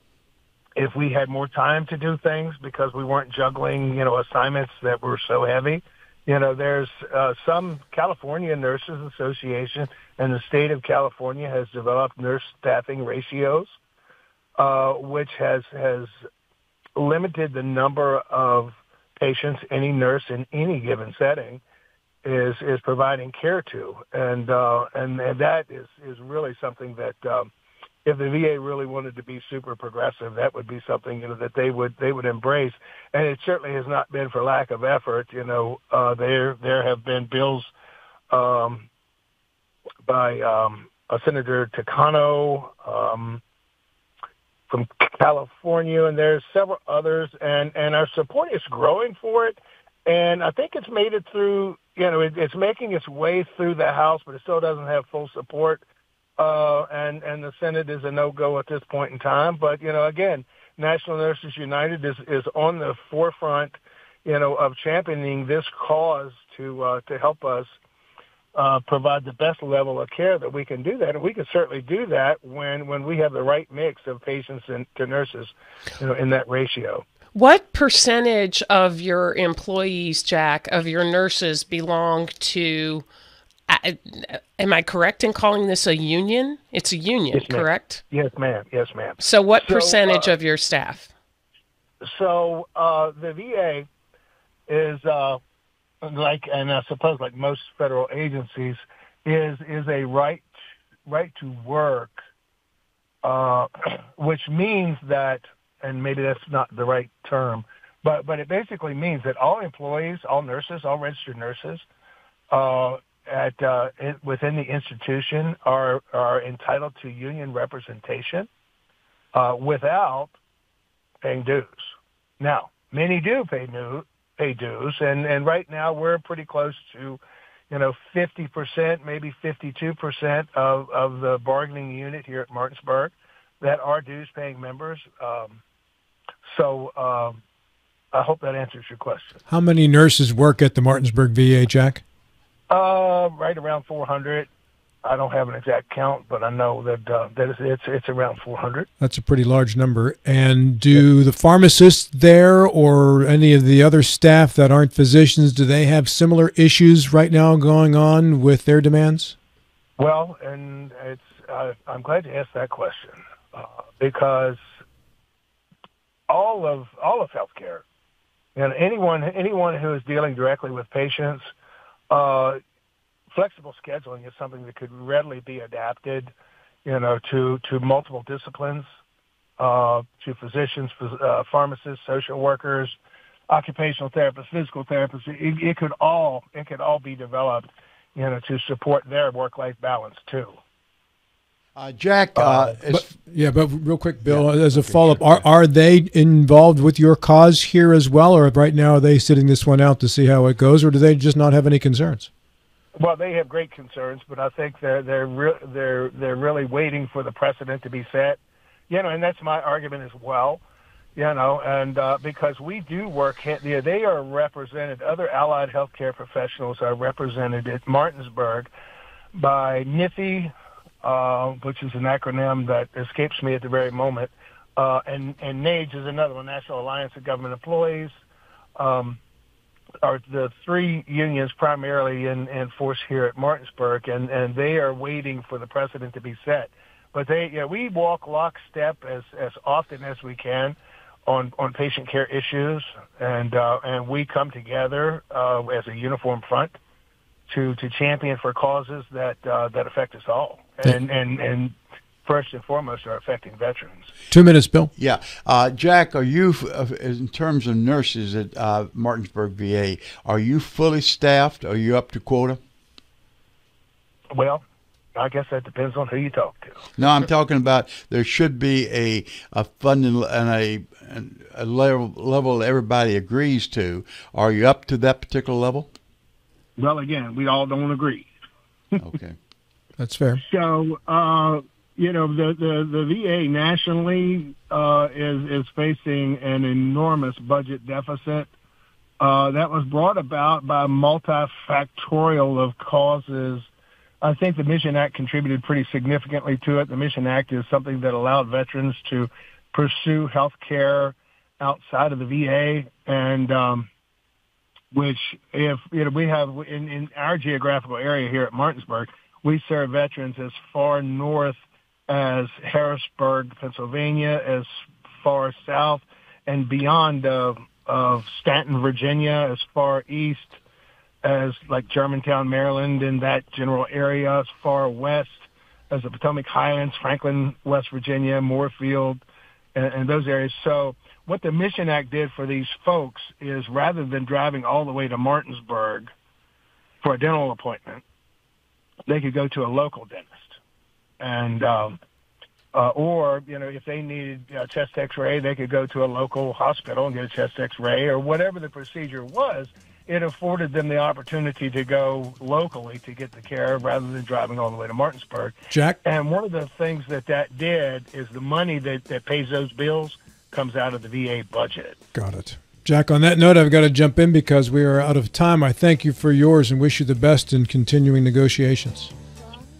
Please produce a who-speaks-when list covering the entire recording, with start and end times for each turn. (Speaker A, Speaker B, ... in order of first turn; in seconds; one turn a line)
Speaker A: 0.8-13.7
Speaker A: 14.6-16.1
Speaker A: 16.9-21.6
Speaker A: 22.2-27.5
Speaker A: 28.0-37.7
Speaker A: 38.3-38.9
Speaker A: 40.0-43.4
Speaker A: 44.7-55.8
Speaker A: 56.4-67.7
Speaker A: 68.5-77.0
Speaker B: 77.3-83.0
Speaker B: 83.7-88.0
Speaker A: 87.3-90.3
Speaker B: 89.2-91.1
Speaker A: 92.0-93.9
Speaker A: 94.7-95.4
Speaker A: 96.0-100.5
Speaker A: 101.0-102.2
Speaker A: 103.2-111.8
Speaker A: 112.5-118.5
Speaker A: 119.3-120.3
Speaker A: 121.2-127.2
Speaker A: 127.7-135.6
Speaker A: 136.4-137.4
Speaker A: 138.1-139.4
Speaker C: 139.5-142.0
Speaker A: 142.7-144.5
Speaker A: 145.0-148.9
Speaker C: 149.0-159.3
Speaker A: 160.0-164.6
Speaker A: 166.3-167.8
Speaker A: 168.5-171.5
Speaker A: 172.1-172.6
Speaker A: 173.3-176.3
Speaker A: 176.8-178.8
Speaker A: 179.6-182.9
Speaker A: 183.5-190.6
Speaker D: 191.7-193.2
Speaker A: 192.4-192.7
Speaker C: 192.9-202.3
Speaker D: 194.2-195.4
Speaker A: 203.0-208.4
Speaker A: 208.9-210.6
Speaker A: 211.2-218.7
Speaker A: 219.3-220.5
Speaker A: 221.0-228.1
Speaker A: 228.8-229.2
Speaker A: 230.0-246.8
Speaker A: 247.5-254.1
Speaker C: 254.3-254.9
Speaker D: 255.0-262.6
Speaker A: 264.3-264.6
Speaker A: 265.1-266.8
Speaker D: 267.0-275.9
Speaker A: 276.8-278.3
Speaker D: 279.0-279.4
Speaker C: 280.0-280.4
Speaker A: 280.4-288.5
Speaker A: 289.2-293.7
Speaker A: 294.2-303.9
Speaker A: 304.9-320.6
Speaker A: 321.2-329.2
Speaker A: 329.7-336.1
Speaker A: 337.0-338.0
Speaker A: 339.1-340.6
Speaker A: 341.2-342.0
Speaker A: 342.7-362.0
Speaker C: 355.7-356.0
Speaker C: 362.1-369.1